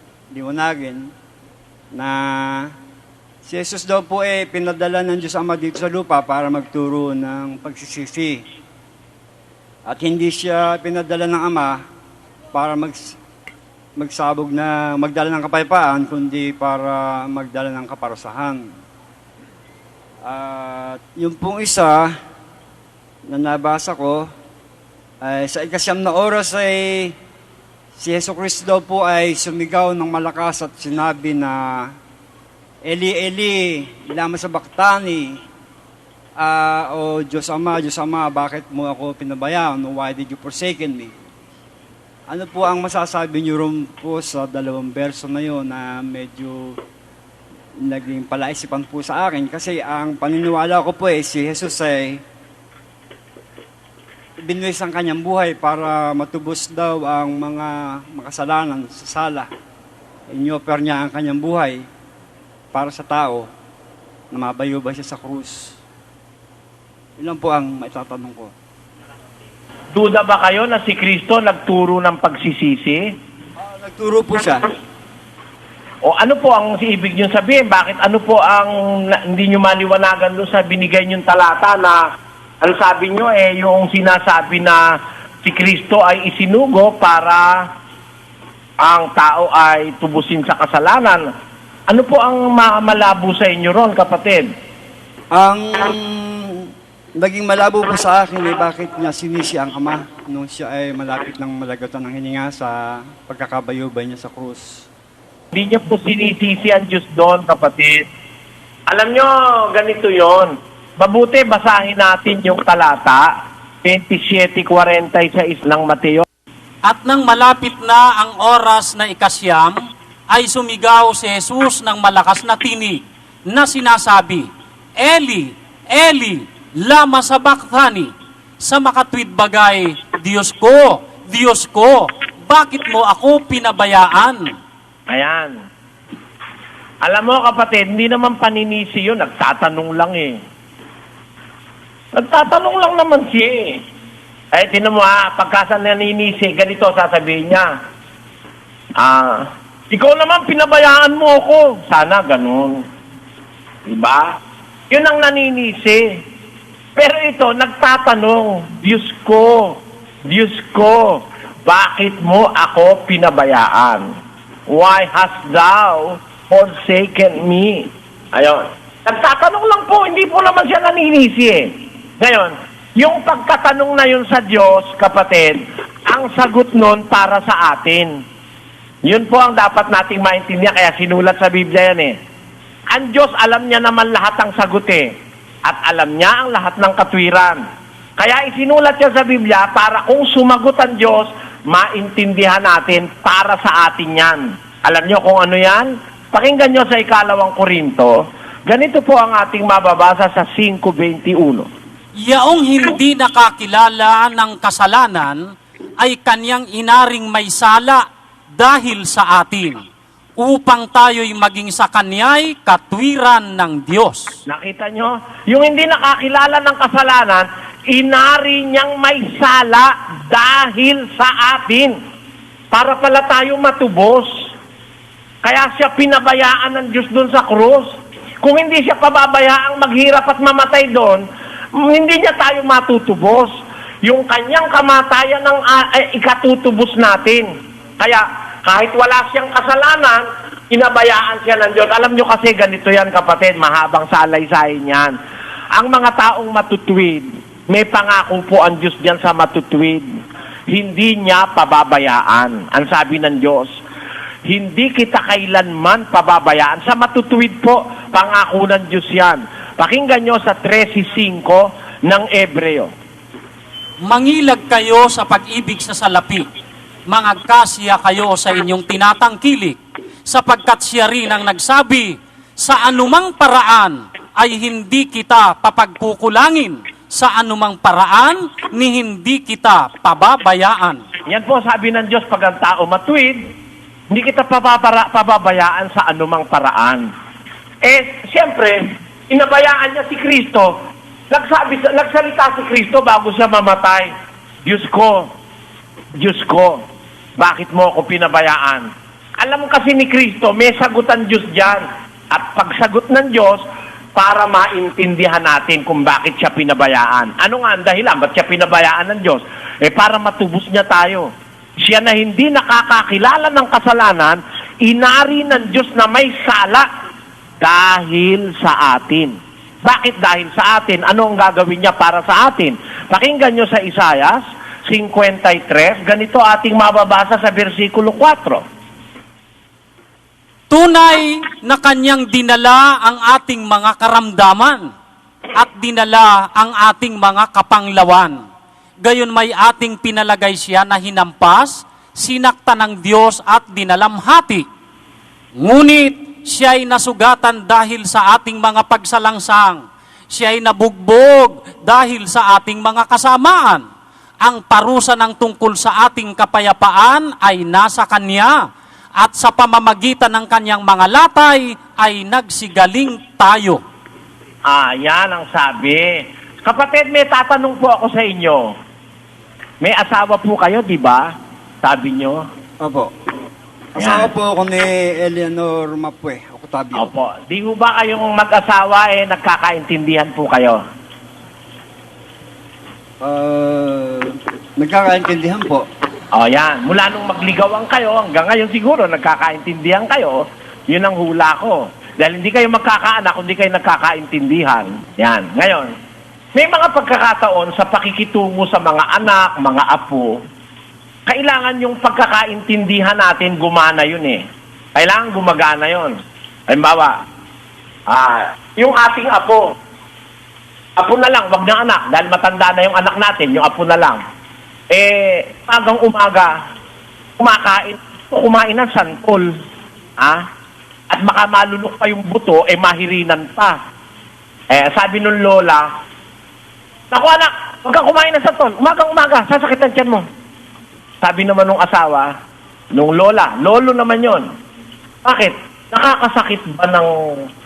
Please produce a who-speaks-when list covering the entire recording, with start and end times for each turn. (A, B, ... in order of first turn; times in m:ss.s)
0:00.3-0:01.1 A
0:01.9-0:02.7 A
0:03.4-0:08.4 A
0:09.9-0:11.8 A
0:12.5-0:13.2 A
0:14.0-0:18.6 A
0:20.2-0:22.1 A
0:23.3-0:24.3 A
0:25.2-0:27.1 A
0:28.0-0:31.9 A
0:32.8-0:35.4 A
0:36.4-0:41.1 A
0:42.3-0:46.8 A
0:47.8-0:52.2 A
0:54.4-0:59.5 A
1:00.3-1:01.8 A
1:02.7-1:03.5 A
1:04.3-1:05.8 A
1:07.2-1:08.5 A
1:09.9-1:13.0 B
1:13.6-1:14.7 A
1:16.0-1:22.0 B
1:22.6-1:24.8 B
1:25.4-1:27.6 B
1:28.8-1:31.2 B
1:31.9-1:34.5 B
1:35.3-1:44.9 A
1:45.5-1:48.0 B
1:48.9-1:53.3 B
1:53.8-1:56.2 B
1:56.8-1:59.8 C
2:00.3-2:04.5 C
2:05.0-2:08.1 C
2:08.6-2:14.4 C
2:15.1-2:15.5 B
2:17.0-2:20.4 B
2:22.1-2:23.8 B
2:24.5-2:27.7 B
2:29.0-2:32.8 B
2:33.9-2:34.3 B
2:34.9-2:36.0 B
2:37.0-2:39.7 B
2:40.3-2:44.0 B
2:44.7-2:51.7 B
2:52.2-2:58.1 B
2:59.0-3:02.1 B
3:02.9-3:05.1 B
3:05.6-3:07.6 B
3:08.2-3:21.7 B
3:22.2-3:28.0 C
3:28.6-3:29.8 C
3:30.4-3:34.3 C
3:34.5-3:41.9 B
3:42.7-3:44.3 B
3:45.4-3:47.9 B
3:48.4-3:51.2 B
3:51.8-3:53.5 B
3:54.0-3:57.4 B
3:58.0-4:05.1 B
4:05.7-4:10.0 B
4:10.7-4:13.7 B
4:14.4-4:22.9 B
4:24.0-4:26.4 C
4:27.1-4:41.0 C
4:41.3-4:43.4 B
4:44.1-4:47.1 B
4:47.8-4:50.7 B
4:51.3-4:54.1 B
4:54.6-4:55.3 B
4:56.2-4:56.8 B
4:57.4-4:58.9 B
4:59.4-5:03.6 B
5:04.1-5:11.3 B
5:11.8-5:16.8 B
5:17.6-5:28.6 B
5:30.7-5:34.9 C
5:35.6-5:38.4 C
5:39.0-5:44.6 C
5:45.6-5:53.8 C
5:54.4-5:58.6 C
5:59.2-6:03.8 C
6:04.7-6:06.1 B
6:06.6-6:08.7 B
6:09.8-6:11.3 B
6:11.8-6:12.4 B
6:12.8-6:13.1 A
6:13.9-6:17.1 A
6:14.0-6:14.3 B
6:16.9-6:20.8 B
6:23.2-6:25.8 A
6:26.3-6:35.9 B
6:36.5-6:40.4 B
6:41.3-6:44.4 B
6:45.0-6:46.1 B
6:46.7-6:47.1 B
6:48.1-6:49.6 B
6:51.0-6:54.2 B
6:54.9-6:56.5 B
6:57.4-6:59.5 B
7:01.1-7:03.8 B
7:04.7-7:05.8 B
7:07.1-7:10.2 B
7:11.2-7:12.3 B
7:12.9-7:14.4 B
7:15.2-7:17.4 B